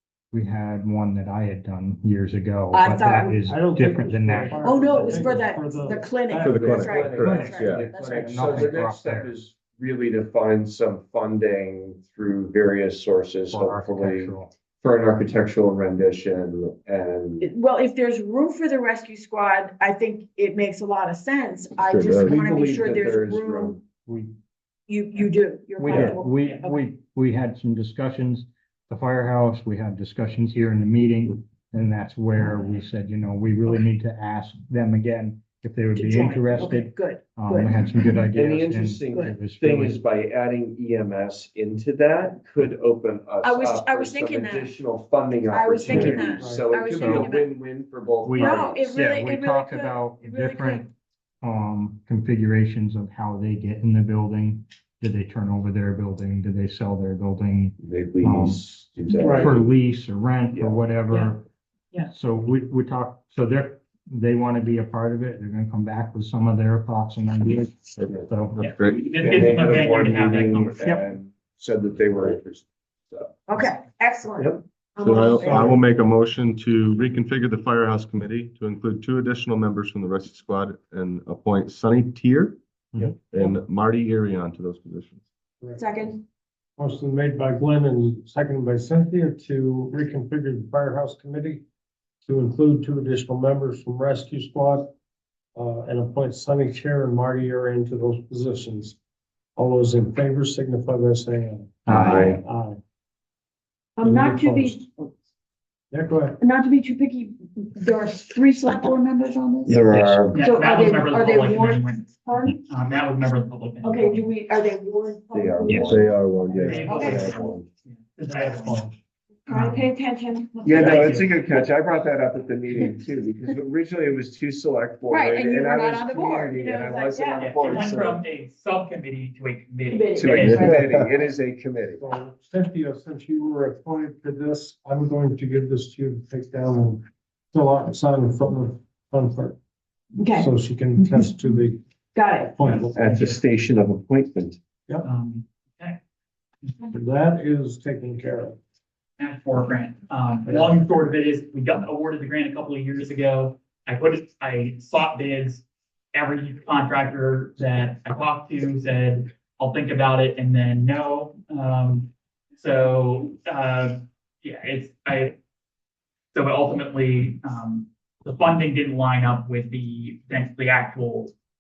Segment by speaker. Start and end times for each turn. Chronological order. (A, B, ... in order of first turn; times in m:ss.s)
0:00.3-0:04.7 A
0:02.7-0:03.5 B
0:03.4-0:07.0 C
0:04.4-0:08.5 B
0:06.4-0:07.9 D
0:06.8-0:17.5 E
0:07.2-0:09.3 A
0:13.5-0:14.5 A
0:17.4-0:23.8 B
0:21.9-0:22.4 D
0:22.1-0:23.8 E
0:24.0-0:24.3 A
0:24.9-0:26.8 B
0:25.8-0:40.0 A
0:26.4-0:26.6 F
0:35.9-0:38.2 B
0:38.3-0:48.9 E
0:39.1-0:39.4 B
0:43.4-0:44.8 B
0:45.5-0:47.5 B
0:45.8-0:46.7 C
0:46.9-0:47.3 A
0:48.2-0:50.9 A
0:48.3-0:50.9 B
0:51.4-1:01.4 A
0:57.8-0:59.7 E
0:59.1-0:59.4 B
0:59.2-0:59.5 C
1:02.1-1:08.7 A
1:08.6-1:11.0 F
1:08.7-1:09.6 D
1:09.1-1:13.4 E
1:13.5-1:15.8 B
1:15.0-1:22.6 D
1:23.2-1:25.2 D
1:25.6-1:25.9 C
1:25.8-1:26.2 B
1:26.8-1:31.6 C
1:32.2-1:34.9 C
1:35.6-1:39.0 C
1:39.6-1:42.8 C
1:41.9-1:42.4 A
1:41.9-1:42.4 E
1:44.0-1:45.1 B
1:44.0-1:44.8 C
1:45.9-1:46.4 C
1:46.4-1:52.6 B
1:49.7-1:50.5 E
1:49.9-1:52.1 F
1:52.6-1:54.3 F
1:53.8-1:56.2 B
1:55.3-1:57.7 E
1:55.7-1:57.3 D
1:56.7-1:58.9 F
1:56.8-1:57.4 B
1:58.4-1:58.9 C
1:59.5-1:59.9 F
1:59.5-2:01.2 B
2:00.6-2:08.2 E
2:00.7-2:01.4 F
2:05.1-2:07.9 B
2:07.4-2:10.7 F
2:09.9-2:11.2 B
2:10.2-2:12.0 E
2:10.5-2:11.1 D
2:12.0-2:19.6 C
2:20.2-2:21.3 B
2:20.3-2:21.8 C
2:22.2-2:22.6 B
2:22.4-2:23.3 C
2:22.7-2:23.4 F
2:23.0-2:24.6 E
2:25.0-2:26.0 F
2:26.9-2:28.6 C
2:29.2-2:45.4 F
2:46.3-2:51.3 F